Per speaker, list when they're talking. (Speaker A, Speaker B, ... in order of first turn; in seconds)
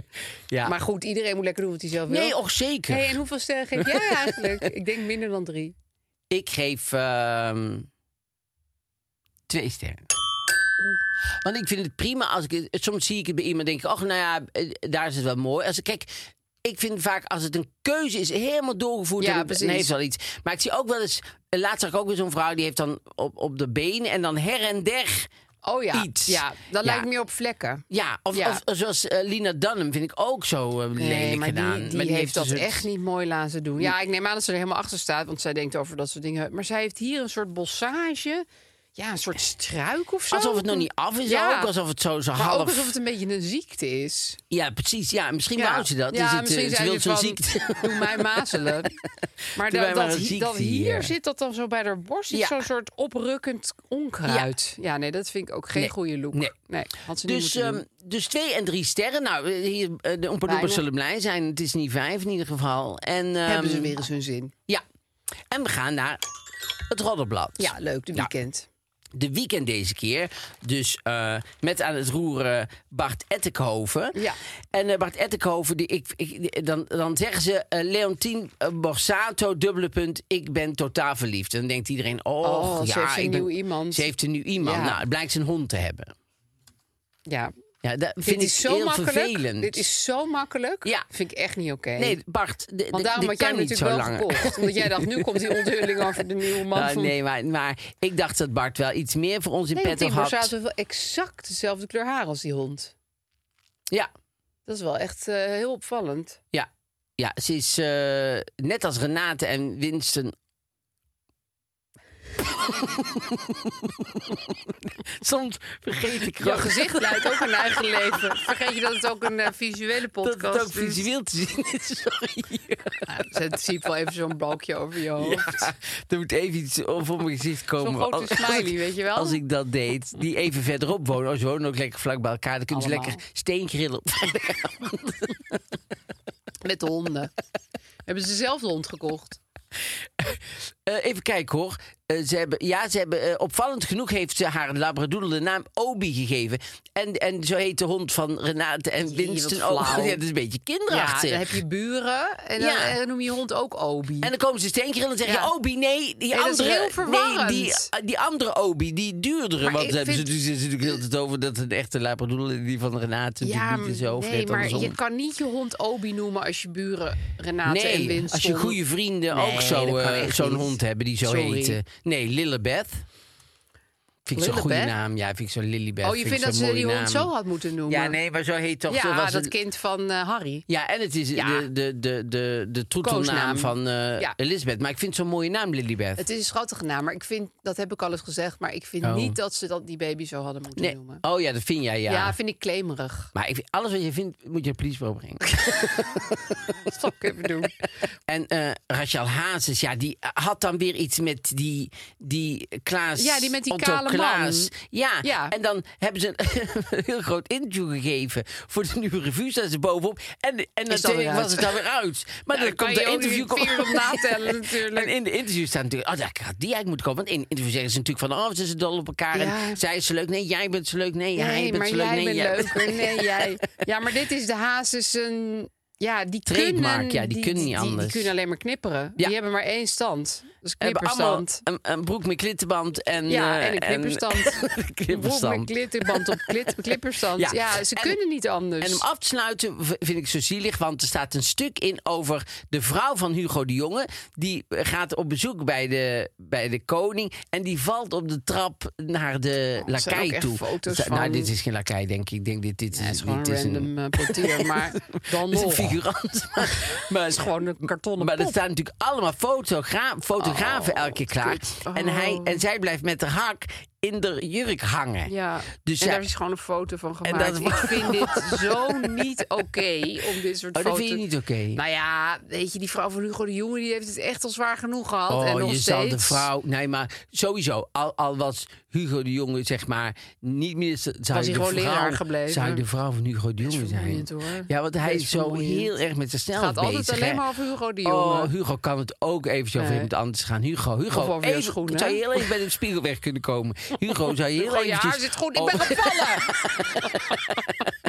Speaker A: 0.6-2.3, 2.9-5.7, 19.2-19.9, 25.6-28.6, 30.9-41.7, 42.3-44.4, 45.5-48.9, 49.5-57.8, 60.5-60.8, 63.5-64.5, 67.6-68.7, 82.4-85.0, 87.3-87.5, 88.2-92.2, 92.9-97.1, 99.7-102.9, 104.7-106.4, 116.4-121.1, 123.1-125.7, 127.8-129.4, 132.7-133.2, 136.6-137.3, 138.1-139.4, 149.0-150.2, 150.9-154.3, 155.2-155.5, 156.3-157.9, 159.6-160.3, 163.4-168.8, 169.3-171.8, 174.3-174.9, 176.0-178.2, 178.9-180.7, 181.3-181.7, 183.0-184.3, 186.2-191.2, 192.1-193.3, 196.8-197.8, 203.2-204.7, 205.2-205.5, 210.9-211.7, 212.5-215.1, 219.3-219.8, 221.3-231.6, 233.3-239.0, 249.8-251.5, 252.9-256.0, 256.6-258.6, 260.4-262.6, 265.3-276.5, 281.3-282.8, 283.6-285.9, 286.5-288.5, 289.8-290.1, 291.1-292.5, 294.6-297.4
Speaker B: 2.1-3.1, 3.8-4.2, 6.3-7.9, 9.5-10.1, 11.4-25.3, 25.9-27.1, 27.9-32.8, 40.3-42.9, 44.5-49.0, 49.6-51.1, 52.3-52.6, 55.7-56.5, 57.2-64.0, 65.5-66.2, 66.9-68.3, 69.1-74.2, 74.7-86.1, 87.8-89.8, 92.0-96.0, 96.7-100.5, 106.5-110.3, 112.7-118.5, 120.2-123.0, 125.2-135.3, 140.2-151.6, 152.6-152.9, 154.2-164.9, 167.7-173.0, 174.3-177.3, 177.9-179.5, 180.7-186.2, 189.0-189.4, 190.8-192.3, 193.3-196.7, 198.3-223.5, 226.5-228.3, 230.8-236.7, 237.3-238.2, 238.8-257.5, 258.2-265.3, 265.8-266.3, 267.2-269.2, 270.8-271.8, 275.3-287.4, 288.0-297.6